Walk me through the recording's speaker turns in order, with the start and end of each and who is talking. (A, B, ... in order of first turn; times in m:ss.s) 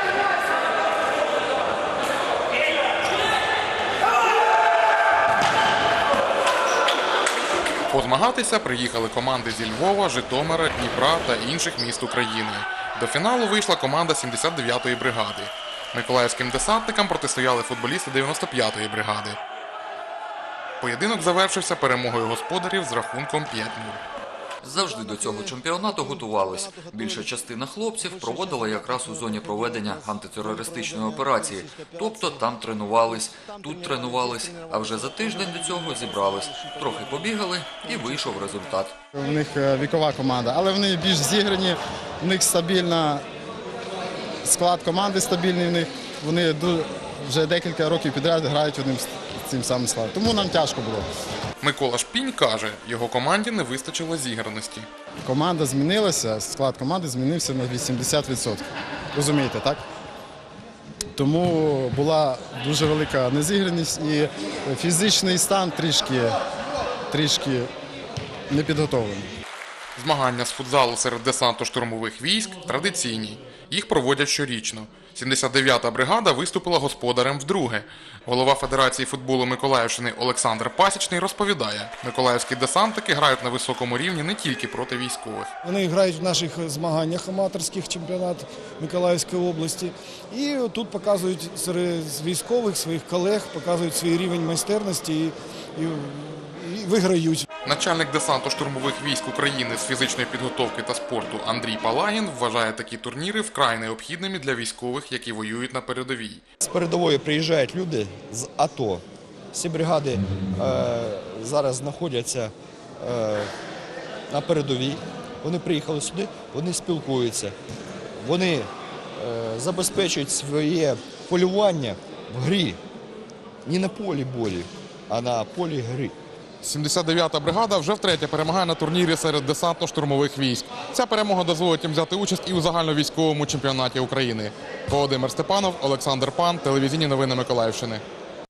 0:07.9-0:19.4 A
0:20.8-0:24.0 A
0:24.6-0:38.9 B
0:24.8-0:27.3 C
0:28.0-0:29.9 C
0:33.4-0:34.1 C
0:34.9-0:35.7 C
0:39.1-0:43.2 D
0:44.4-0:51.0 D
0:51.6-0:54.9 A
0:55.2-0:59.8 D
1:01.2-1:06.3 D
1:07.1-1:07.7 D
1:08.5-1:09.3 D
1:10.0-1:25.5 A
1:25.6-1:37.4 E
1:37.6-1:46.4 A
1:46.6-1:53.5 C
1:54.3-1:57.5 C
1:58.2-2:02.8 C
2:03.6-2:06.2 C
2:06.6-2:18.0 A